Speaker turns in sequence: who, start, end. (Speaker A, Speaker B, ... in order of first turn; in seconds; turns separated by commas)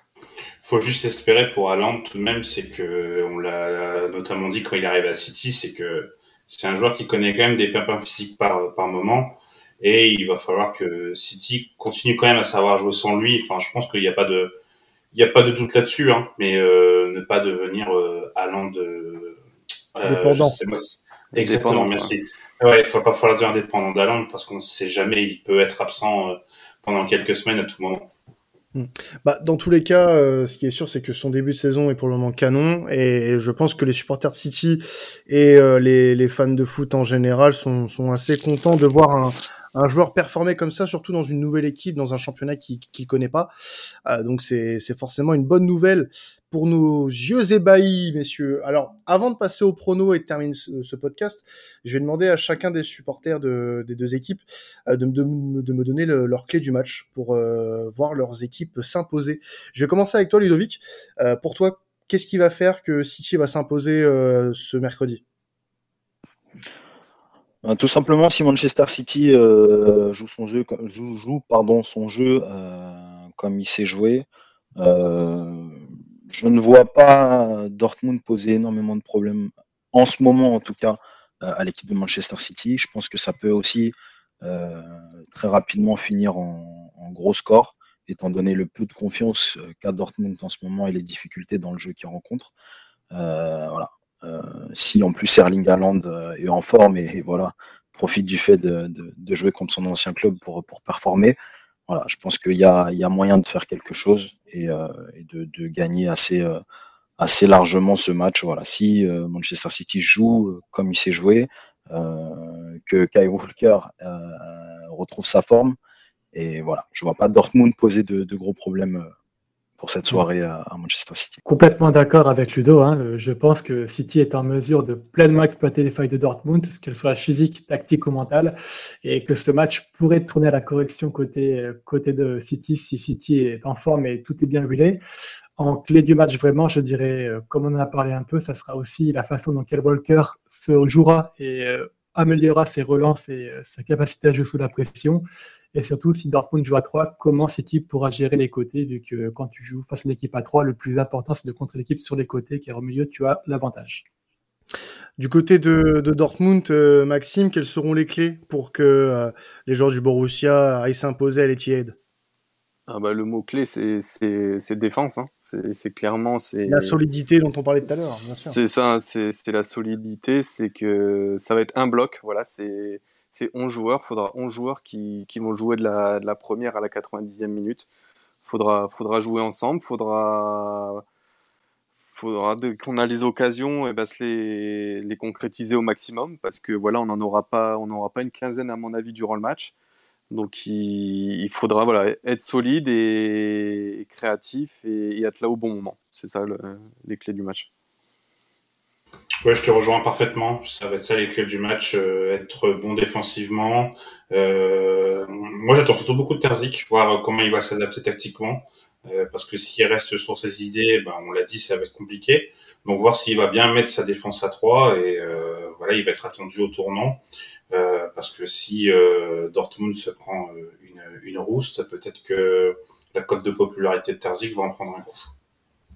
Speaker A: 0.6-14.6, Speaker A: 15.1-19.4, Speaker A: 19.9-28.1, Speaker B: 20.0-20.6, Speaker C: 21.3-22.1, Speaker B: 28.7-43.5, Speaker B: 44.0-65.2, Speaker D: 67.6-74.2, Speaker D: 74.8-92.5, Speaker D: 93.1-101.3, Speaker D: 101.9-106.6, Speaker D: 107.2-115.8, Speaker D: 116.3-119.1, Speaker D: 119.8-121.4, Speaker E: 121.4-135.0, Speaker E: 135.6-154.0, Speaker B: 155.2-161.9, Speaker C: 162.9-167.0, Speaker B: 166.7-168.6, Speaker C: 168.4-177.9, Speaker C: 178.4-181.0, Speaker C: 182.0-189.7, Speaker C: 190.3-197.7, Speaker A: 199.4-225.3